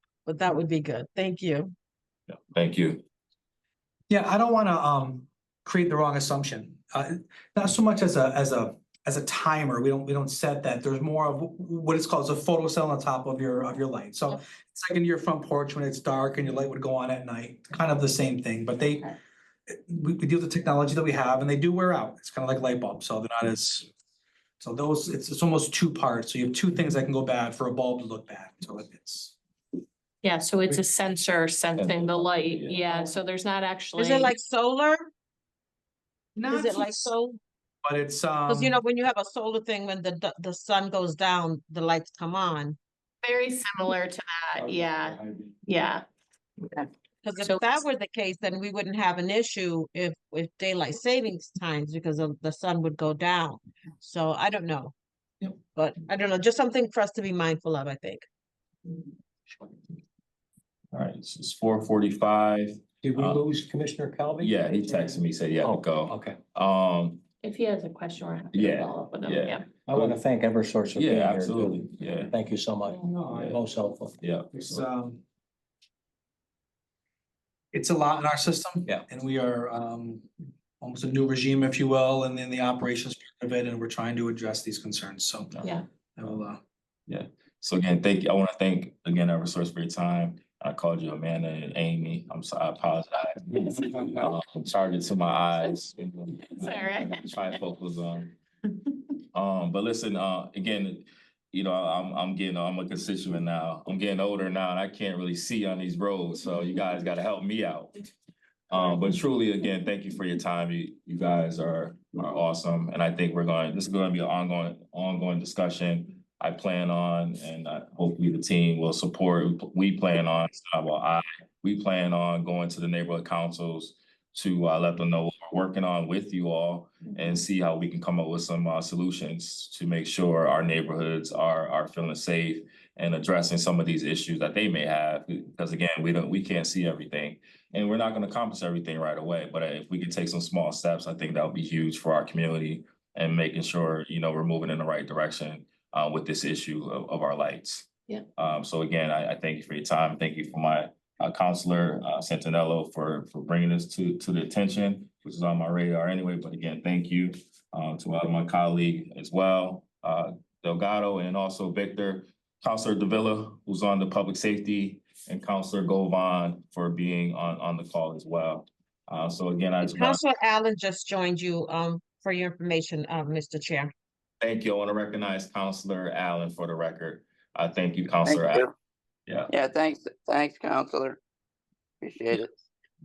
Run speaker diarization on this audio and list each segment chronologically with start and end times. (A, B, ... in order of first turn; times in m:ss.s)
0:00.2-0:01.7 A
0:02.3-0:03.0 B
0:04.1-0:19.2 C
0:19.7-0:23.9 C
0:24.6-0:29.4 C
0:30.2-0:34.4 D
0:31.8-0:33.2 B
0:34.0-0:35.0 A
0:36.4-0:37.1 C
0:36.5-0:37.4 A
0:37.8-0:38.8 C
0:38.5-0:42.8 A
0:43.2-0:46.0 D
0:44.6-0:45.5 E
0:47.2-0:54.9 A
0:47.4-0:47.8 D
0:55.7-0:58.3 A
1:00.9-1:03.4 B
1:03.0-1:04.6 E
1:04.4-1:07.2 B
1:05.1-1:06.4 E
1:07.4-1:09.7 D
1:08.5-1:10.2 B
1:09.9-1:14.2 E
1:11.0-1:12.4 B
1:13.0-1:13.5 C
1:13.3-1:13.6 B
1:14.2-1:14.8 B
1:14.5-1:15.2 C
1:17.7-1:20.3 C
1:20.8-1:25.6 C
1:26.2-1:26.6 C
1:27.1-1:38.4 B
1:36.5-1:37.6 D
1:39.3-1:47.9 B
1:48.7-2:50.2 B
2:49.8-2:53.9 A
2:54.4-2:58.6 B
2:58.2-2:58.7 F
2:59.5-3:01.2 F
3:02.0-3:02.6 F